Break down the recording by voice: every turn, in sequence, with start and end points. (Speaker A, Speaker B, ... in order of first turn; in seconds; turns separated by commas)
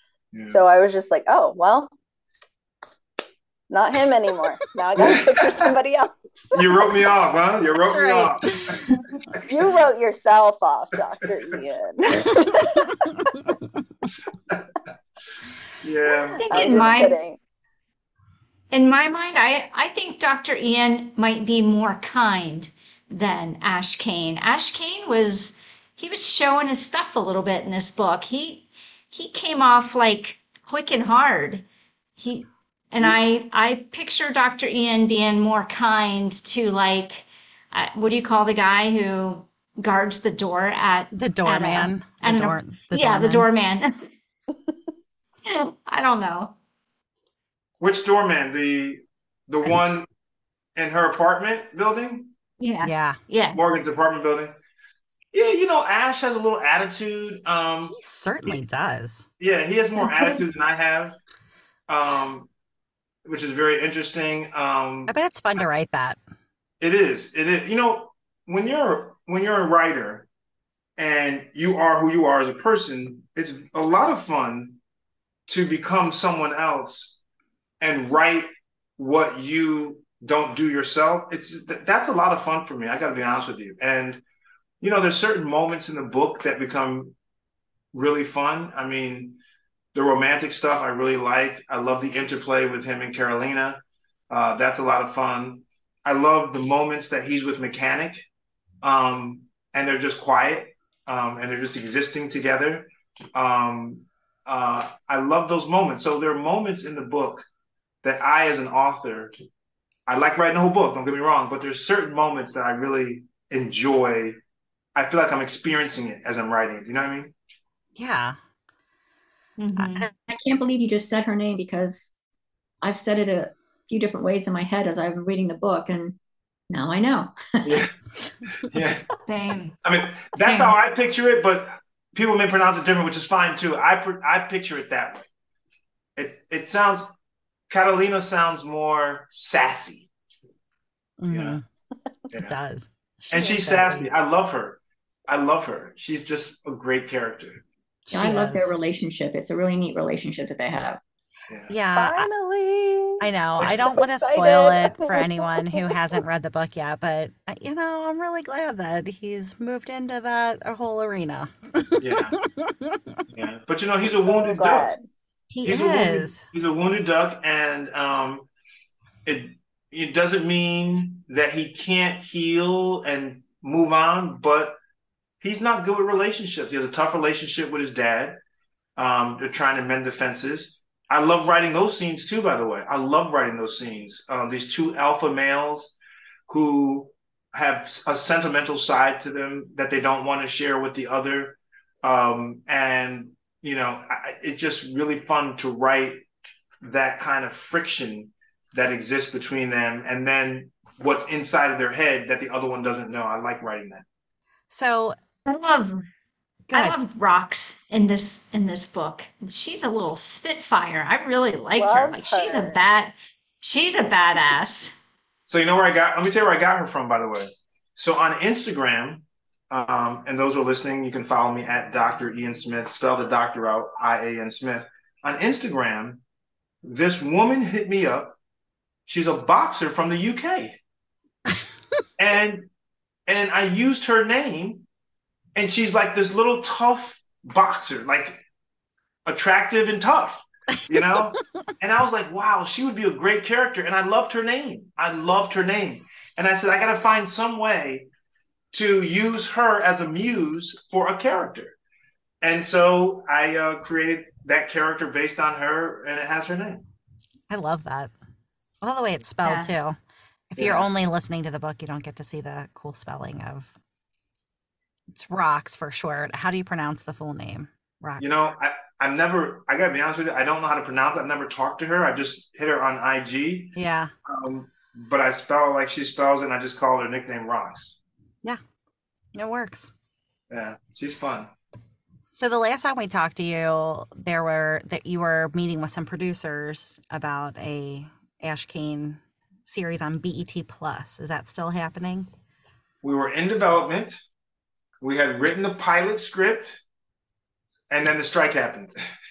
Speaker A: 0.3-0.6, Speaker B: 0.5-1.9, Speaker B: 3.7-6.2, Speaker A: 5.0-5.6, Speaker A: 6.5-9.4, Speaker C: 7.9-9.0, Speaker B: 9.5-12.9, Speaker C: 13.3-13.6, Speaker A: 15.8-16.9, Speaker D: 16.4-17.1, Speaker B: 16.5-17.4, Speaker D: 18.7-31.6, Speaker D: 32.2-44.1, Speaker C: 41.1-43.5, Speaker D: 45.5-46.5, Speaker A: 47.8-50.1, Speaker A: 50.8-52.3, Speaker D: 52.6-53.6, Speaker C: 52.8-53.2, Speaker A: 53.5-54.5, Speaker A: 55.3-58.0, Speaker C: 57.9-59.3, Speaker A: 59.4-61.2, Speaker D: 60.0-60.4, Speaker A: 61.9-62.5, Speaker A: 63.2-65.1, Speaker C: 65.1-66.2, Speaker A: 66.8-70.3, Speaker A: 71.0-74.8, Speaker A: 75.5-77.2, Speaker A: 77.8-84.2, Speaker A: 84.8-87.2, Speaker A: 87.9-89.4, Speaker A: 89.9-98.3, Speaker A: 98.8-107.5, Speaker A: 108.0-109.3, Speaker A: 110.1-114.4, Speaker A: 115.0-117.3, Speaker C: 118.0-118.4, Speaker D: 119.6-120.1, Speaker E: 120.0-122.1, Speaker E: 122.8-126.2, Speaker E: 126.7-127.8, Speaker A: 127.6-127.9, Speaker A: 128.7-129.1, Speaker D: 129.3-129.8, Speaker A: 129.8-135.3, Speaker D: 130.4-130.8, Speaker A: 136.2-137.1, Speaker A: 137.7-140.1, Speaker C: 141.2-141.6, Speaker A: 141.3-141.6, Speaker C: 142.3-144.1, Speaker A: 143.3-147.6, Speaker C: 148.1-148.7, Speaker E: 148.1-151.0, Speaker C: 151.7-152.3, Speaker B: 151.9-156.0, Speaker C: 153.2-163.0, Speaker A: 153.6-154.0, Speaker A: 162.0-162.4, Speaker A: 163.3-164.9, Speaker B: 164.2-165.0, Speaker C: 165.5-166.4, Speaker A: 165.7-168.5, Speaker A: 169.2-174.8, Speaker A: 175.4-178.4, Speaker A: 179.0-185.9, Speaker A: 186.5-196.3, Speaker A: 196.8-204.1, Speaker C: 204.7-205.2, Speaker D: 205.5-206.1, Speaker C: 206.7-207.0, Speaker D: 206.7-214.9, Speaker B: 211.8-212.8, Speaker A: 215.5-226.2, Speaker A: 226.8-228.4, Speaker A: 229.1-230.8, Speaker A: 232.2-232.7, Speaker A: 233.3-234.9, Speaker A: 235.6-238.4, Speaker A: 239.3-248.1, Speaker A: 248.7-251.8, Speaker A: 252.4-256.8, Speaker C: 257.5-258.1, Speaker C: 258.8-260.0, Speaker D: 259.4-259.7, Speaker C: 260.6-263.7, Speaker A: 260.6-260.9, Speaker C: 265.1-268.3, Speaker A: 268.2-273.8, Speaker C: 273.8-274.1, Speaker A: 274.3-278.0, Speaker C: 279.3-279.9, Speaker A: 280.5-281.5, Speaker C: 282.3-292.3, Speaker A: 293.0-294.2, Speaker A: 295.0-296.8, Speaker A: 297.9-298.9